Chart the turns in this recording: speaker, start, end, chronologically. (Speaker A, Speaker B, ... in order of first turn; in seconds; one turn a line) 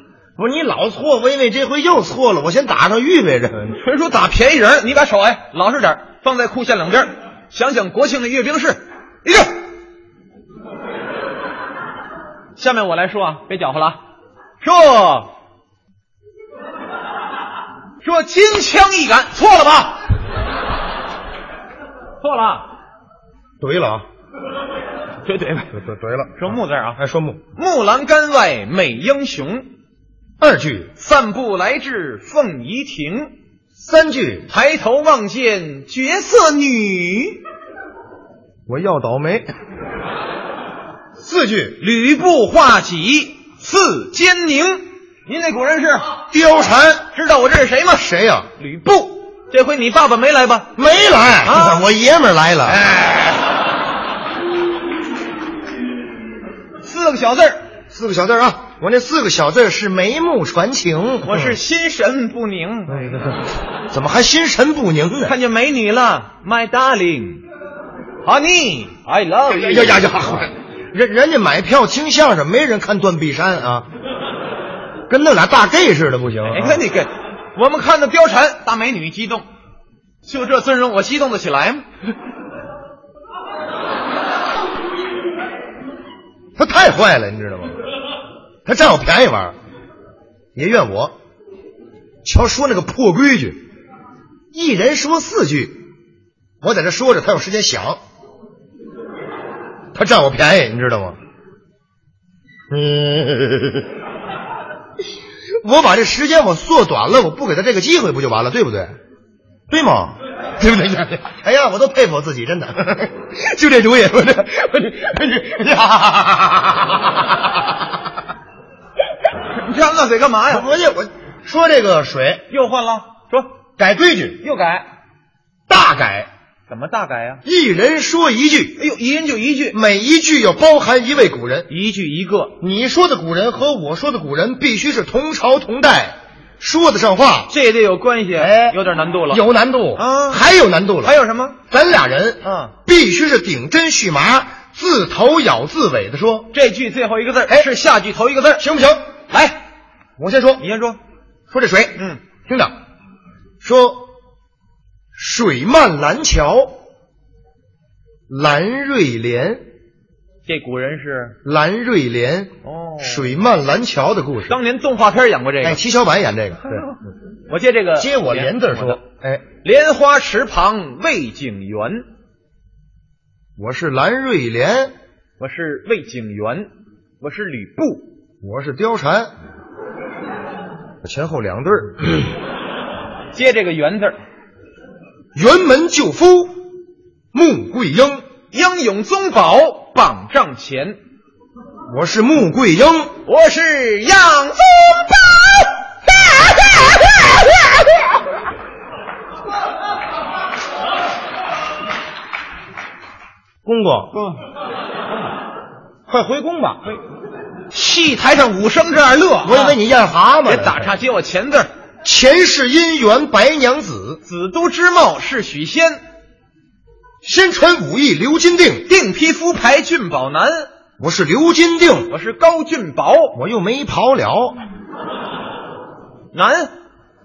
Speaker A: 0.4-3.8
Speaker B: 3.7-9.6
Speaker B: 12.6-14.0
Speaker B: 14.6-15.3
Speaker B: 18.0-20.1
Speaker B: 22.2-22.7
Speaker A: 23.6-24.0
Speaker B: 25.2-25.7
Speaker A: 25.7-27.4
Speaker B: 26.4-27.0
Speaker B: 27.6-29.7
Speaker A: 30.4-30.9
Speaker B: 31.0-33.3
Speaker A: 33.8-34.5
Speaker B: 34.5-37.4
Speaker A: 38.7-39.5
Speaker A: 41.2-41.8
Speaker B: 41.8-46.1
Speaker A: 46.3-47.1
Speaker B: 47.1-50.7
Speaker A: 48.0-48.5
Speaker A: 50.8-52.8
Speaker B: 51.5-51.8
Speaker B: 52.7-53.5
Speaker B: 56.8-57.6
Speaker A: 57.9-61.6
Speaker B: 61.2-63.1
Speaker A: 62.9-65.3
Speaker B: 65.2-67.4
Speaker B: 68.2-70.4
Speaker A: 69.5-73.9
Speaker A: 75.1-76.8
Speaker B: 76.5-79.4
Speaker B: 80.2-81.8
Speaker A: 86.5-87.8
Speaker A: 88.6-89.5
Speaker A: 90.5-91.1
Speaker A: 92.2-93.6
Speaker A: 94.5-95.8
Speaker A: 96.6-98.0
Speaker A: 99.9-101.2
Speaker A: 102.7-103.9
Speaker A: 105.6-109.0
Speaker A: 109.7-117.3
Speaker B: 119.5-120.7
Speaker A: 120.5-122.5
Speaker B: 122.5-123.5
Speaker A: 123.8-124.4
Speaker B: 124.4-124.9
Speaker A: 125.7-126.3
Speaker B: 126.7-127.4
Speaker A: 127.4-128.8
Speaker B: 128.8-129.8
Speaker A: 129.7-131.7
Speaker B: 131.7-132.5
Speaker A: 132.6-137.5
Speaker B: 137.5-139.4
Speaker A: 138.4-138.8
Speaker A: 139.3-141.2
Speaker B: 140.0-140.4
Speaker B: 141.0-141.6
Speaker A: 141.7-146.5
Speaker B: 142.4-142.7
Speaker B: 146.5-148.7
Speaker A: 148.6-149.0
Speaker B: 149.3-149.6
Speaker A: 150.2-150.6
Speaker B: 150.6-151.0
Speaker A: 151.5-152.7
Speaker B: 151.9-152.2
Speaker A: 153.6-154.1
Speaker A: 155.1-156.8
Speaker A: 158.3-159.6
Speaker B: 160.4-161.4
Speaker A: 161.4-164.6
Speaker B: 162.6-163.3
Speaker B: 164.5-165.8
Speaker A: 165.6-166.8
Speaker B: 167.5-169.0
Speaker A: 168.0-169.4
Speaker B: 169.6-172.0
Speaker A: 173.6-174.9
Speaker B: 175.4-176.7
Speaker B: 177.2-178.1
Speaker A: 178.4-179.3
Speaker A: 181.0-182.3
Speaker B: 183.3-184.2
Speaker A: 185.3-186.6
Speaker A: 187.3-188.2
Speaker B: 188.5-191.0
Speaker A: 191.9-193.1
Speaker B: 193.2-197.8
Speaker A: 203.6-204.2
Speaker B: 204.1-204.4
Speaker A: 206.1-206.9
Speaker B: 207.7-209.8
Speaker A: 209.4-210.9
Speaker B: 210.4-211.7
Speaker A: 212.0-214.2
Speaker B: 214.2-216.0
Speaker A: 217.2-218.9
Speaker B: 218.8-220.7
Speaker A: 221.0-222.1
Speaker B: 222.1-223.4
Speaker A: 223.3-224.6
Speaker B: 226.3-226.7